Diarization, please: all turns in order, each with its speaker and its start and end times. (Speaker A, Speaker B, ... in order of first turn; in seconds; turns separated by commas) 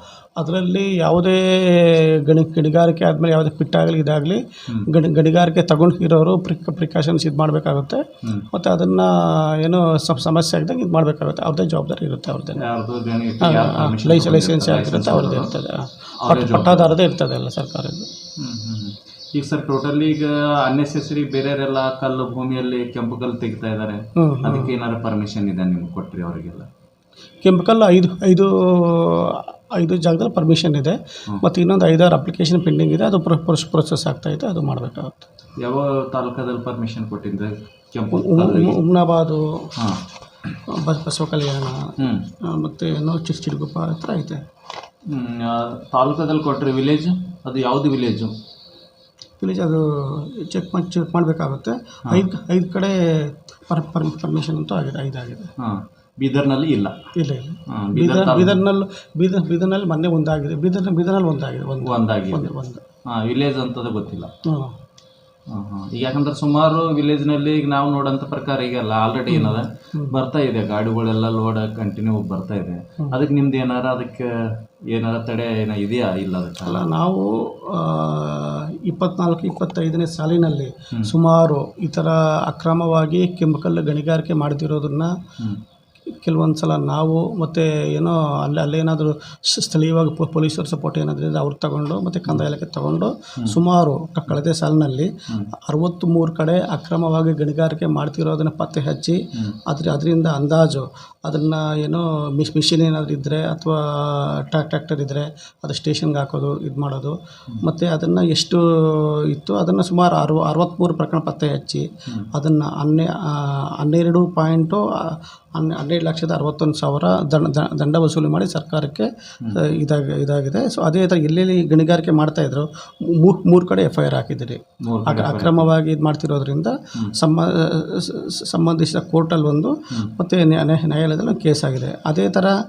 Speaker A: 0.4-12.6, Speaker B: 12.6-15.5, Speaker A: 13.4-18.1, Speaker B: 16.2-16.9, Speaker B: 18.4-26.7, Speaker A: 24.2-24.7, Speaker A: 27.4-35.2, Speaker B: 35.6-38.8, Speaker A: 38.1-39.7, Speaker A: 40.7-41.9, Speaker A: 42.5-44.4, Speaker B: 45.1-48.3, Speaker A: 49.4-55.5, Speaker B: 55.6-57.0, Speaker A: 57.2-62.8, Speaker B: 57.7-58.6, Speaker B: 61.8-62.5, Speaker B: 63.1-64.3, Speaker A: 64.5-64.7, Speaker B: 65.5-76.8, Speaker A: 69.3-70.2, Speaker A: 76.6-85.1, Speaker A: 86.2-132.5, Speaker B: 124.8-125.7